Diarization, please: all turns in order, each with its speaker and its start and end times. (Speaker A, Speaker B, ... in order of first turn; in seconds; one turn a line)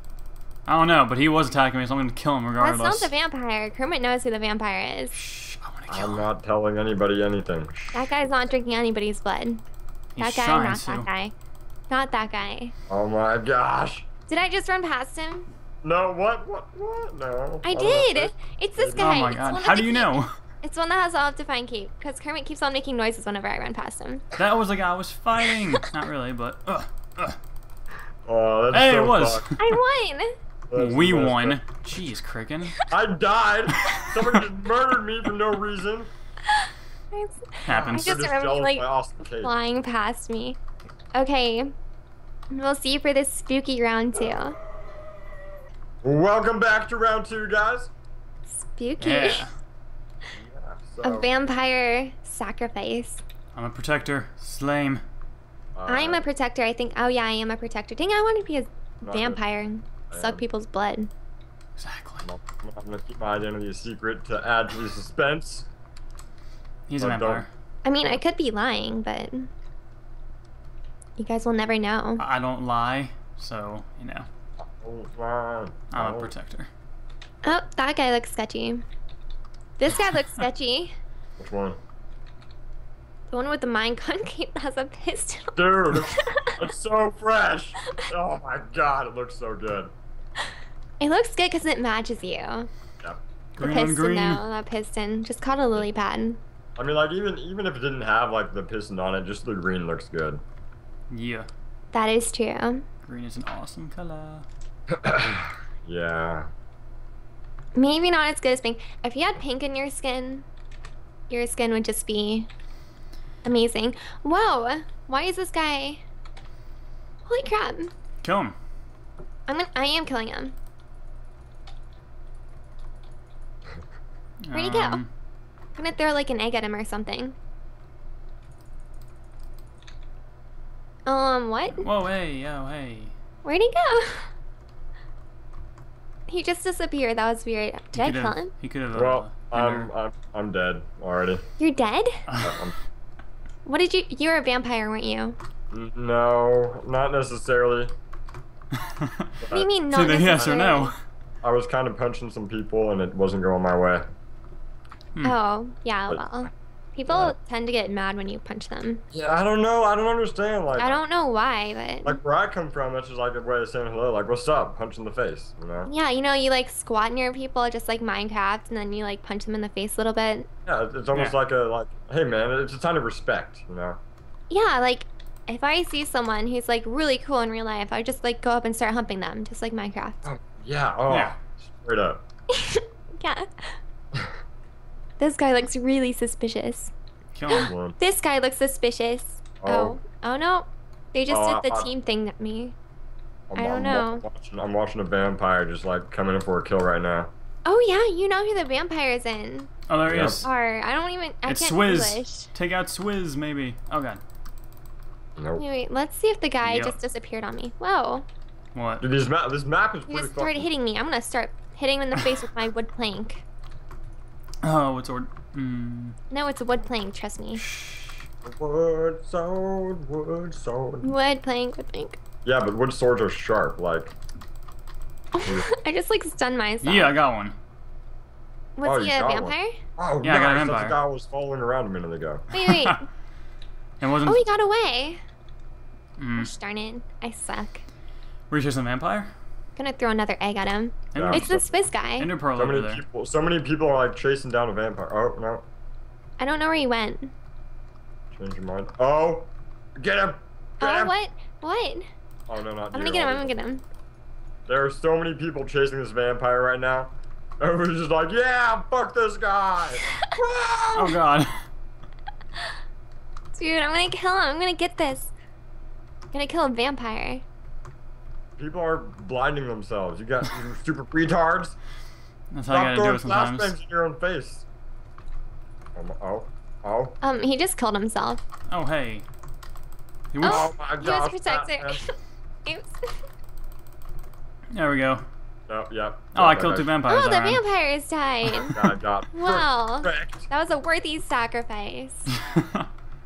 Speaker A: 0.7-3.1
Speaker B: 2.6-5.2
Speaker A: 5.1-6.3
Speaker C: 5.9-8.2
Speaker B: 7.9-9.6
Speaker A: 10.2-11.1
Speaker B: 10.2-11.3
Speaker B: 11.9-12.7
Speaker C: 12.9-14.1
Speaker B: 14.3-15.5
Speaker C: 15.8-19.3
Speaker B: 17.6-24.3
Speaker A: 19.0-20.3
Speaker A: 24.4-27.4
Speaker C: 28.3-29.4
Speaker A: 28.7-29.8
Speaker B: 29.6-30.3
Speaker C: 30.7-31.6
Speaker A: 30.8-32.8
Speaker C: 32.9-36.1
Speaker A: 33.9-34.4
Speaker B: 36.5-40.6
Speaker A: 37.6-38.2
Speaker C: 37.7-39.5
Speaker B: 41.1-41.7
Speaker B: 42.5-44.6
Speaker C: 46.0-47.9
Speaker B: 48.5-49.5
Speaker A: 49.0-49.5
Speaker C: 50.4-51.3
Speaker B: 51.0-53.2
Speaker A: 53.5-55.0
Speaker C: 55.8-56.2
Speaker B: 55.9-61.1
Speaker C: 59.0-59.4
Speaker C: 60.1-60.5
Speaker A: 61.8-62.3
Speaker C: 62.2-65.7
Speaker A: 66.9-67.5
Speaker C: 67.0-67.5
Speaker B: 67.8-69.5
Speaker B: 71.2-72.2
Speaker A: 72.2-74.3
Speaker C: 74.6-76.3
Speaker A: 75.9-76.7
Speaker B: 77.5-78.8
Speaker B: 79.8-81.0
Speaker C: 81.4-81.8
Speaker B: 83.3-86.6
Speaker C: 85.5-89.9
Speaker B: 91.0-92.7
Speaker A: 93.6-94.4
Speaker B: 93.6-96.4
Speaker C: 96.8-100.4
Speaker A: 101.1-101.5
Speaker B: 101.9-102.8
Speaker A: 103.0-104.5
Speaker C: 104.9-106.5
Speaker B: 107.8-110.5
Speaker B: 111.3-112.5
Speaker B: 113.4-116.0
Speaker B: 117.3-117.9
Speaker A: 118.2-118.5
Speaker B: 119.5-120.5
Speaker A: 124.4-125.1
Speaker B: 124.5-125.0
Speaker B: 125.8-127.4
Speaker B: 131.1-131.9
Speaker A: 131.8-133.1
Speaker B: 133.4-134.3
Speaker B: 136.3-138.5
Speaker A: 137.9-139.9
Speaker C: 138.9-141.4
Speaker B: 141.6-142.2
Speaker A: 142.3-142.6
Speaker C: 142.4-142.8
Speaker B: 143.7-145.4
Speaker C: 145.7-147.9
Speaker A: 148.9-149.3
Speaker C: 149.4-149.7
Speaker B: 149.5-150.9
Speaker A: 149.9-150.9
Speaker C: 151.4-154.1
Speaker B: 155.2-159.0
Speaker C: 156.1-156.4
Speaker C: 157.1-157.3
Speaker C: 159.1-161.0
Speaker B: 160.8-162.2
Speaker C: 162.0-165.9
Speaker B: 165.9-170.5
Speaker C: 170.7-174.0
Speaker B: 174.5-180.2
Speaker C: 180.2-182.2
Speaker A: 181.1-181.3
Speaker B: 182.6-183.7
Speaker B: 185.2-186.9
Speaker A: 187.3-187.7
Speaker B: 187.5-192.8
Speaker C: 187.7-188.0
Speaker C: 189.6-190.0
Speaker C: 191.3-191.9
Speaker C: 193.5-197.3
Speaker B: 193.6-194.2
Speaker B: 197.7-199.7
Speaker A: 199.9-200.5
Speaker C: 200.1-200.4
Speaker B: 200.4-202.5
Speaker A: 201.4-204.2
Speaker C: 205.4-205.6
Speaker B: 205.6-208.2
Speaker A: 206.6-207.0
Speaker A: 208.7-209.1
Speaker C: 209.0-210.7
Speaker B: 210.1-213.4
Speaker A: 214.6-216.2
Speaker B: 216.3-217.6
Speaker A: 217.6-218.2
Speaker C: 218.4-221.1
Speaker B: 221.0-222.2
Speaker C: 222.4-224.2
Speaker B: 225.3-227.1
Speaker C: 225.4-225.7
Speaker A: 226.8-227.6
Speaker B: 228.8-229.8
Speaker C: 228.8-232.5
Speaker A: 230.2-231.0
Speaker B: 232.5-233.1
Speaker A: 232.6-233.0
Speaker A: 234.0-234.4
Speaker B: 234.2-235.2
Speaker A: 236.2-236.5
Speaker B: 236.4-237.8
Speaker A: 238.5-239.3
Speaker B: 239.8-242.3
Speaker A: 241.1-241.5
Speaker C: 241.2-241.7
Speaker A: 242.2-243.0
Speaker C: 242.6-245.7
Speaker B: 246.4-247.3
Speaker C: 248.3-251.1
Speaker B: 250.8-252.1
Speaker C: 252.5-253.5
Speaker B: 252.9-253.8
Speaker C: 254.7-261.2
Speaker A: 260.9-261.6
Speaker B: 263.5-265.3
Speaker B: 266.3-267.4
Speaker C: 268.6-271.8
Speaker A: 272.5-273.8
Speaker C: 272.7-274.7
Speaker C: 276.0-277.2
Speaker B: 277.2-278.4
Speaker A: 278.7-279.2
Speaker A: 280.3-280.7
Speaker C: 280.4-282.0
Speaker B: 280.4-282.1
Speaker B: 282.6-283.0
Speaker A: 284.7-285.2
Speaker C: 285.7-286.9
Speaker A: 286.3-287.6
Speaker B: 287.1-288.8
Speaker A: 288.5-288.8
Speaker C: 288.7-290.5
Speaker B: 289.3-292.3
Speaker A: 292.5-292.9